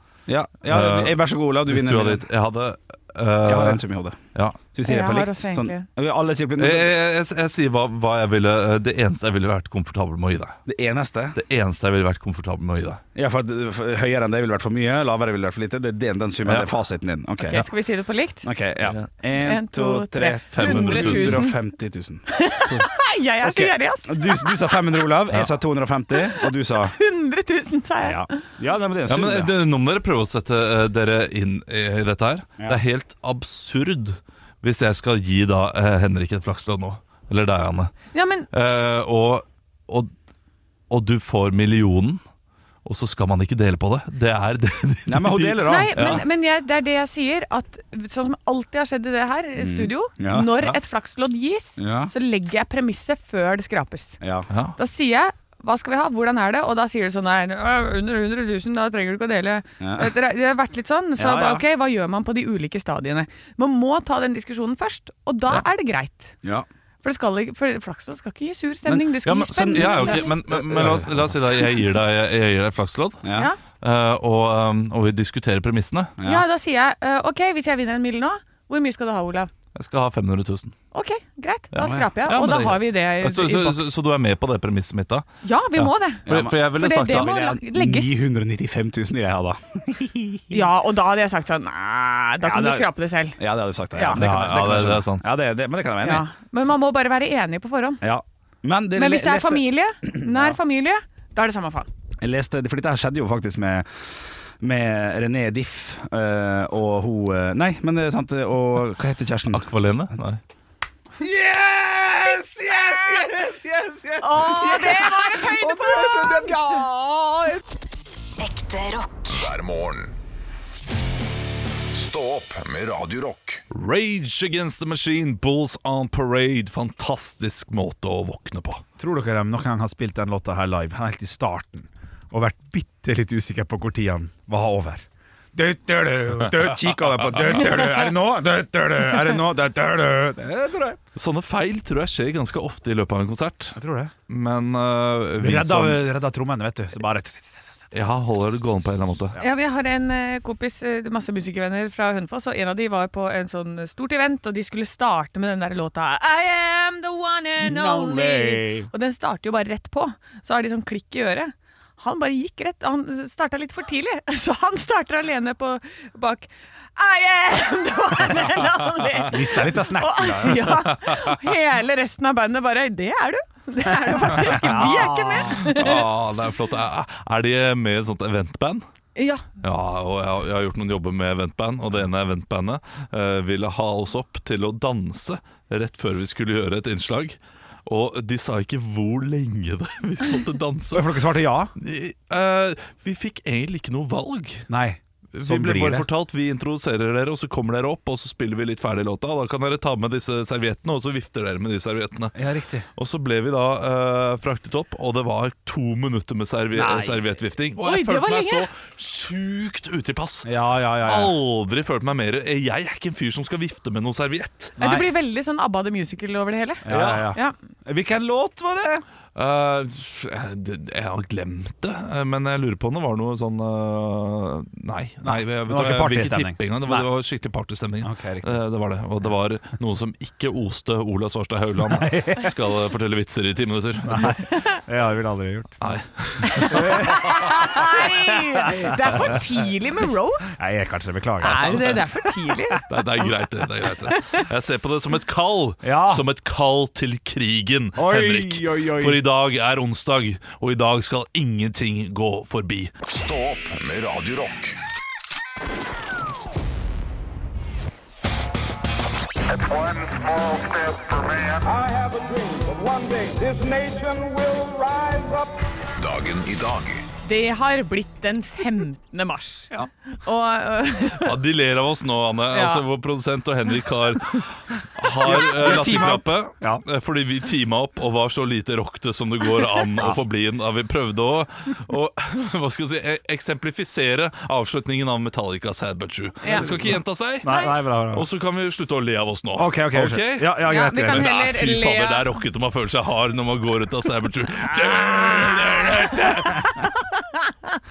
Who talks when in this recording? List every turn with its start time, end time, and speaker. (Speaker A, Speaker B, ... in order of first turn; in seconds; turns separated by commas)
Speaker A: 0.3-2.3, Speaker B: 0.7-3.8, Speaker A: 3.4-4.2, Speaker B: 4.3-4.6, Speaker A: 4.7-6.9, Speaker C: 4.8-5.8, Speaker B: 6.6-10.6, Speaker A: 10.7-11.4, Speaker B: 11.3-13.0, Speaker A: 13.1-17.7, Speaker B: 16.4-16.7, Speaker C: 17.4-18.5, Speaker A: 18.4-22.2, Speaker B: 18.8-19.1, Speaker C: 19.4-21.5, Speaker B: 20.5-21.5, Speaker C: 22.3-24.6, Speaker B: 22.6-22.9, Speaker A: 23.4-27.0, Speaker C: 26.1-28.3, Speaker A: 28.0-29.5, Speaker B: 29.1-37.9, Speaker C: 38.1-38.5, Speaker B: 38.5-40.1, Speaker B: 40.9-42.2, Speaker B: 42.8-46.2, Speaker A: 45.1-46.2, Speaker C: 45.6-54.2, Speaker A: 49.6-50.6, Speaker A: 51.8-52.1, Speaker A: 54.2-54.5, Speaker B: 54.5-54.8, Speaker C: 54.8-66.3, Speaker A: 59.8-60.1, Speaker A: 61.2-61.6, Speaker C: 67.0-70.3, Speaker A: 68.8-71.3, Speaker B: 69.2-73.2, Speaker A: 73.2-73.5, Speaker C: 73.3-73.6, Speaker B: 73.8-76.1, Speaker A: 76.2-76.4, Speaker C: 76.2-79.5, Speaker B: 79.7-80.7, Speaker C: 80.9-83.9, Speaker B: 81.7-87.4, Speaker C: 85.4-88.2, Speaker A: 86.2-90.7, Speaker C: 90.5-93.4, Speaker A: 92.4-96.2, Speaker C: 93.9-94.2, Speaker B: 94.1-95.3, Speaker C: 96.0-98.0, Speaker A: 98.0-100.6, Speaker C: 98.9-101.9, Speaker A: 102.2-109.7, Speaker B: 109.5-110.4, Speaker A: 111.2-117.7, Speaker C: 114.2-116.8, Speaker D: 118.4-119.4, Speaker E: 119.3-120.2, Speaker E: 121.9-123.6, Speaker B: 123.7-128.8, Speaker A: 129.0-141.0, Speaker B: 141.1-143.8, Speaker A: 143.7-144.1, Speaker B: 144.3-146.0, Speaker A: 145.4-147.6, Speaker B: 147.9-149.4, Speaker C: 149.4-176.1, Speaker A: 157.6-158.9, Speaker A: 169.3-170.9, Speaker B: 170.9-171.3, Speaker A: 174.4-175.9, Speaker B: 175.3-178.8, Speaker C: 179.2-179.4, Speaker B: 179.6-191.1, Speaker A: 190.9-191.7, Speaker B: 191.8-194.7, Speaker A: 194.7-196.1, Speaker B: 195.3-202.4, Speaker A: 202.3-202.8, Speaker B: 202.9-214.8, Speaker A: 206.7-207.2, Speaker C: 207.8-208.7, Speaker A: 210.4-211.3, Speaker C: 214.8-217.5, Speaker A: 214.8-215.1, Speaker A: 216.8-219.0, Speaker B: 216.9-217.3, Speaker B: 219.3-234.5, Speaker A: 225.2-227.1, Speaker A: 228.0-228.6, Speaker A: 231.8-232.5, Speaker A: 234.1-236.0, Speaker C: 234.4-234.8, Speaker B: 235.8-237.1, Speaker C: 236.4-240.6, Speaker A: 236.6-239.4, Speaker A: 240.5-242.8, Speaker C: 241.4-242.8, Speaker B: 241.4-242.1, Speaker B: 242.9-252.9, Speaker C: 244.1-244.4, Speaker A: 245.8-246.2, Speaker A: 247.9-249.2, Speaker E: 253.0-254.8, Speaker D: 261.6-265.5, Speaker E: 266.0-267.1, Speaker C: 267.2-271.4, Speaker B: 271.1-296.7, Speaker C: 272.5-272.8, Speaker A: 275.2-276.8, Speaker C: 286.4-286.9, Speaker A: 286.5-288.2, Speaker C: 287.4-287.7, Speaker A: 289.6-291.3, Speaker C: 290.6-292.3, Speaker C: 295.4-297.8